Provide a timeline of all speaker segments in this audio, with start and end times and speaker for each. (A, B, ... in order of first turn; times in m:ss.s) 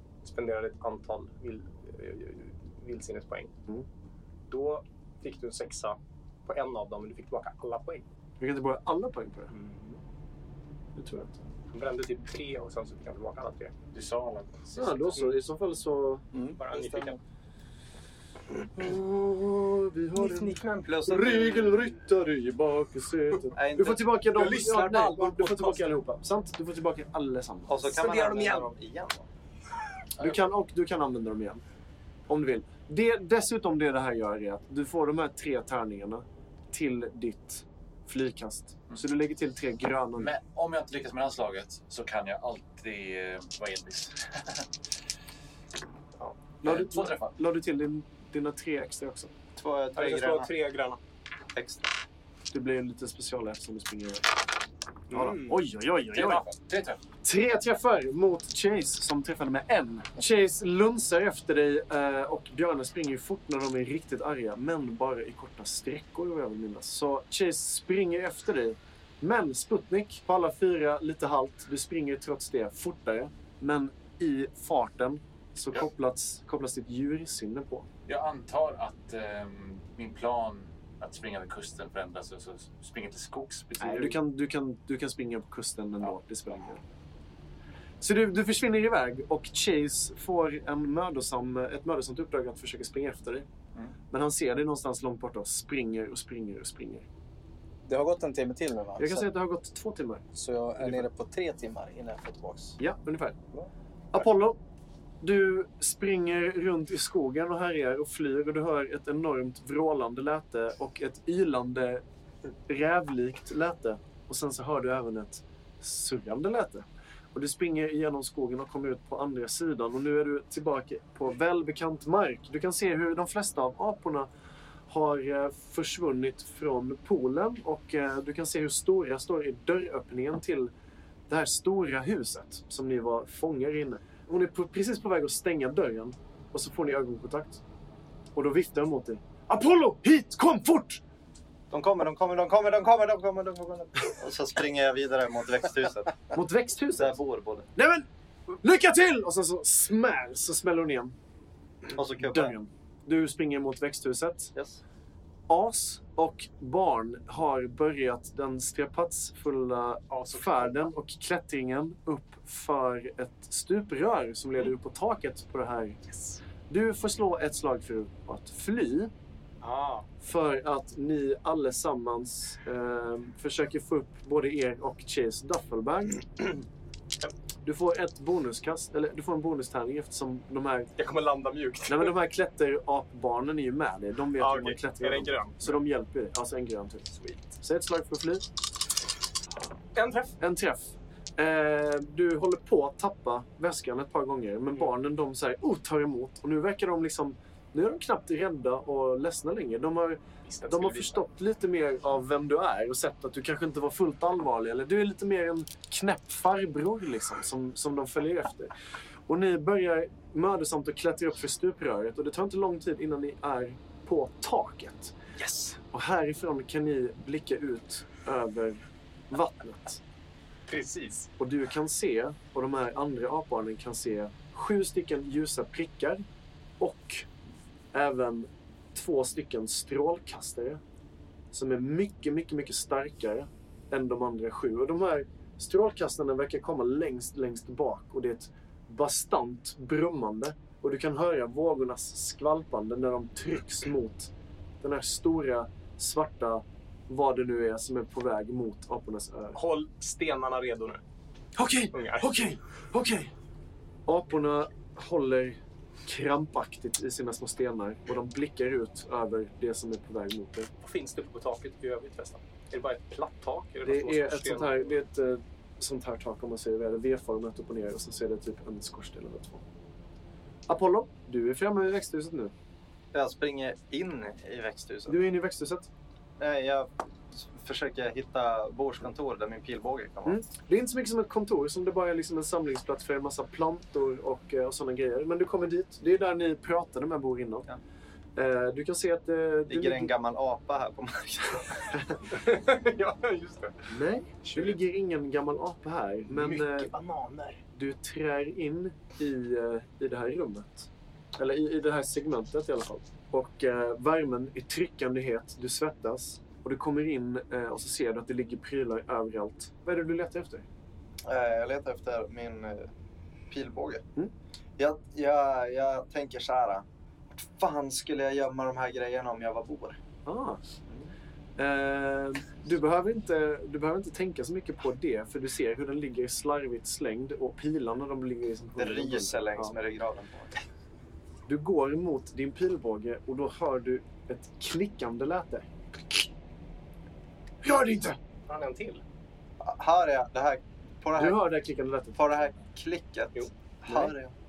0:00.2-0:03.5 A
0:04.5-0:08.0 A
0:08.4-0:09.5 B
0:09.5-0:10.0 A
0:11.0-0:11.5 B
0:11.7-0:13.7 A
0:13.9-0:15.2 C
0:14.8-0:16.3 B
0:16.6-0:17.2 A
0:16.7-0:17.0 D
0:18.8-0:27.9 B
0:20.2-0:21.4 A
0:20.9-0:21.8 D
0:23.6-0:24.2 D
0:24.3-0:25.9 A
0:27.7-0:29.2 D
0:27.9-0:28.7 A
0:30.2-0:30.5 C
0:30.2-0:31.6 B
0:32.3-0:40.3 B
0:40.2-0:44.7 C
0:46.6-0:49.3 B
0:46.6-0:47.4 C
0:49.6-0:50.5 D
0:50.0-0:51.0 A
0:51.6-0:51.9 D
0:52.5-0:54.3 B
0:55.1-0:55.6 A
0:55.1-0:56.4 B
0:56.1-0:57.0 C
0:57.2-1:17.9 B
1:18.1-1:24.2 C
1:23.8-1:26.8 B
1:28.0-1:33.5 B
1:34.1-1:37.1 B
1:37.9-1:39.3 E
1:39.0-1:40.2 B
1:40.3-1:42.8 E
1:40.8-1:41.0 B
1:42.8-1:43.4 B
1:44.1-1:44.6 B
1:45.2-1:52.0 B
1:52.7-2:04.3 B
2:04.9-2:10.7 B
2:11.3-2:17.6 B
2:18.4-2:21.0 B
2:21.7-2:26.3 D
2:26.3-2:27.2 B
2:27.0-2:27.7 D
2:27.8-2:28.1 B
2:28.6-2:31.2 B
2:31.9-2:32.6 D
2:32.2-2:34.6 B
2:34.6-2:34.8 D
2:35.5-2:46.0 B
2:40.1-2:40.9 A
2:46.1-2:46.4 A
2:46.7-2:49.1 B
2:49.6-2:50.1 A
2:50.2-2:56.5 B
2:57.6-3:00.9 B
3:01.0-3:02.1 A
3:01.9-3:08.5 B
3:04.4-3:05.8 A
3:07.1-3:07.5 A
3:10.0-3:10.4 A
3:10.4-3:28.7 B
3:20.4-3:21.2 A
3:29.3-3:35.1 B
3:35.4-3:35.8 A
3:35.9-3:40.0 B
3:40.7-3:41.3 A
3:41.4-3:46.2 B
3:46.8-3:47.3 B
3:47.9-3:50.8 B
3:51.5-4:04.3 B
4:04.8-4:09.6 B
4:09.6-4:11.0 A
4:11.6-4:13.3 B
4:11.9-4:12.6 A
4:14.1-4:20.7 B
4:20.8-4:25.0 A
4:23.8-4:29.6 B
4:30.7-4:32.5 B
4:33.1-4:35.2 D
4:35.1-4:35.9 B
4:36.4-4:40.4 D
4:40.2-4:47.7 B
4:48.4-4:50.1 B
4:49.7-4:51.9 D
4:52.3-4:53.8 A
4:53.9-4:56.9 B
4:54.4-4:54.8 A
4:56.3-4:57.6 A
4:57.8-5:10.7 B
5:11.2-5:12.9 D
5:13.5-5:14.0 D
5:14.8-5:16.8 D
5:17.4-5:20.0 D
5:20.2-5:20.6 B
5:21.6-5:29.7 B
5:28.8-5:30.6 D
5:31.5-5:36.3 B
5:37.6-5:38.2 B
5:38.5-5:39.0 A
5:39.6-5:41.5 D
5:41.2-5:42.2 B
5:42.2-5:44.3 D
5:43.9-5:44.1 B